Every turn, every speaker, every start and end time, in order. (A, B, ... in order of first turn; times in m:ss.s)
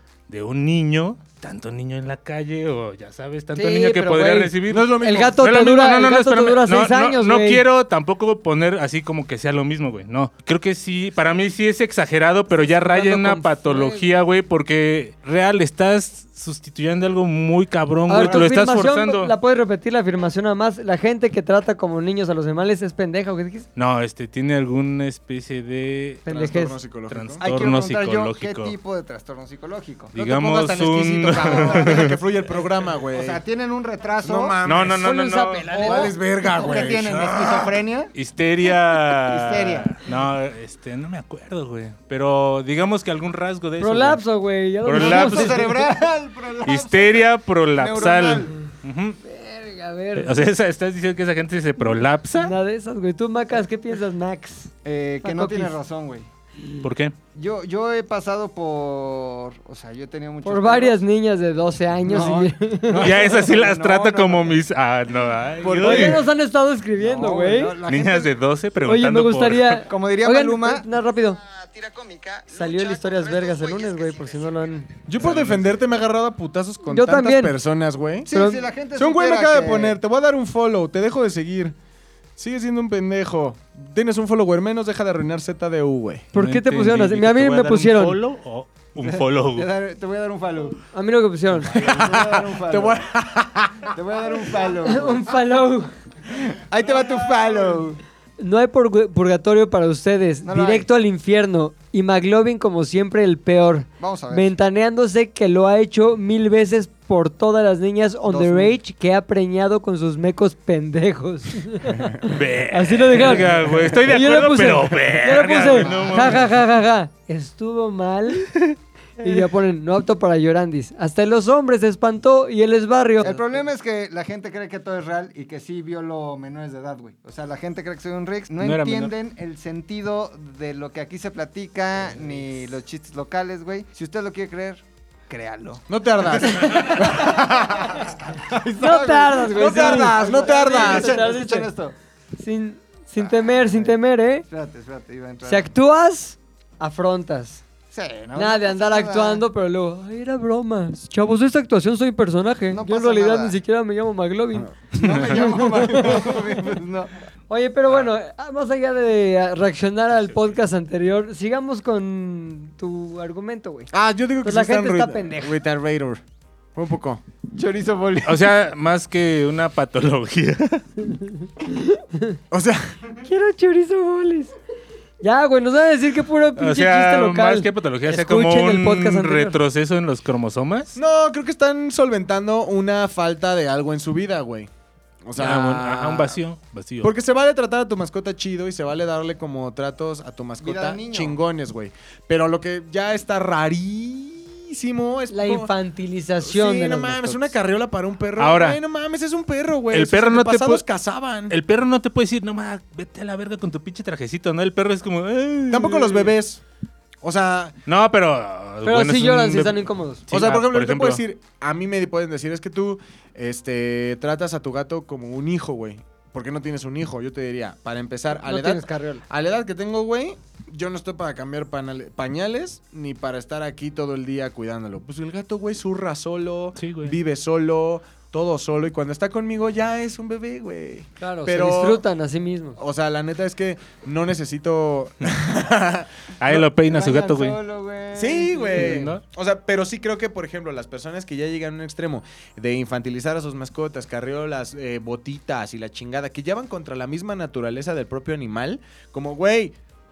0:00.3-0:19.3 A
0:03.5-0:07.6 B
0:04.7-0:05.4 C
0:12.5-0:14.1 B
0:18.1-0:23.7 B
0:18.2-0:18.4 D
0:23.8-0:26.3 A
0:26.2-0:26.8 B
0:26.3-0:27.4 C
0:27.1-0:28.7 A
0:27.4-0:34.6 D
0:30.1-0:32.2 A
0:30.2-0:33.4 C
0:34.2-0:35.1 C
0:34.6-0:37.3 A
0:35.0-0:36.1 B
0:35.7-0:37.7 C
0:35.7-0:38.1 D
0:38.1-0:44.2 A
0:38.7-0:40.0 D
0:43.8-0:45.8 B
0:44.8-0:45.7 A
0:44.9-0:48.5 D
0:46.6-0:49.2 A
0:49.2-0:50.4 B
0:50.2-0:52.5 A
0:51.8-0:54.7 B
0:54.8-0:56.3 D
0:55.2-0:55.7 B
0:56.8-0:57.1 A
0:57.3-1:01.0 D
1:00.4-1:03.1 B
1:02.0-1:04.6 D
1:02.9-1:06.2 A
1:05.6-1:06.2 D
1:05.6-1:06.2 C
1:05.8-1:07.8 B
1:07.0-1:08.3 D
1:07.8-1:09.8 A
1:08.8-1:11.4 B
1:09.9-1:15.4 D
1:12.5-1:14.9 B
1:15.1-1:18.3 C
1:15.2-1:15.6 A
1:16.8-1:17.5 B
1:18.2-1:20.0 D
1:18.3-1:18.6 B
1:19.0-1:21.7 C
1:22.4-1:26.3 C
1:26.3-1:28.2 B
1:26.3-1:29.7 A
1:29.0-1:30.8 D
1:30.9-1:31.8 B
1:31.6-1:33.0 D
1:31.7-1:33.9 C
1:33.9-1:35.3 D
1:34.8-1:35.9 B
1:36.3-1:38.0 D
1:38.4-1:58.5 B
1:40.4-1:40.9 D
1:44.0-1:44.5 D
1:48.3-1:48.7 D
1:52.2-1:56.5 A
1:55.7-1:56.4 D
1:59.2-2:03.4 B
2:03.2-2:21.9 D
2:08.6-2:09.1 A
2:15.9-2:17.7 C
2:16.4-2:17.4 B
2:18.8-2:21.7 B
2:19.5-2:21.2 C
2:22.4-2:24.4 B
2:23.2-2:25.7 D
2:25.4-2:27.6 B
2:27.9-2:29.4 D
2:28.3-2:36.3 B
2:32.7-2:33.6 D
2:34.6-2:36.5 C
2:34.9-2:37.1 D
2:37.5-2:43.9 B
2:40.1-2:40.5 A
2:43.9-2:46.2 C
2:44.4-2:45.6 B
2:46.7-2:47.2 C
2:47.5-2:48.4 D
2:48.2-2:50.8 A
2:51.6-2:52.4 B
2:52.5-2:53.1 C
2:53.2-2:54.5 B
2:55.2-2:59.6 B
2:56.6-3:01.0 A
3:01.0-3:04.7 C
3:05.2-3:06.4 C
3:05.4-3:07.1 A
3:07.0-3:15.7 C
3:10.6-3:11.4 D
3:15.3-3:17.5 B
3:16.4-3:21.5 C
3:18.4-3:18.8 A
3:19.9-3:20.8 A
3:21.5-3:26.3 A
3:25.7-3:26.6 C
3:27.2-3:27.8 C
3:27.9-3:31.2 A
3:28.8-3:30.2 B
3:30.3-3:52.0 C
3:38.4-3:39.2 B
3:46.8-3:47.2 A
3:51.2-3:52.8 B
3:52.8-3:56.6 C
3:56.4-3:57.6 A
3:56.8-3:59.0 D
3:58.1-4:09.7 C
3:58.7-3:59.2 A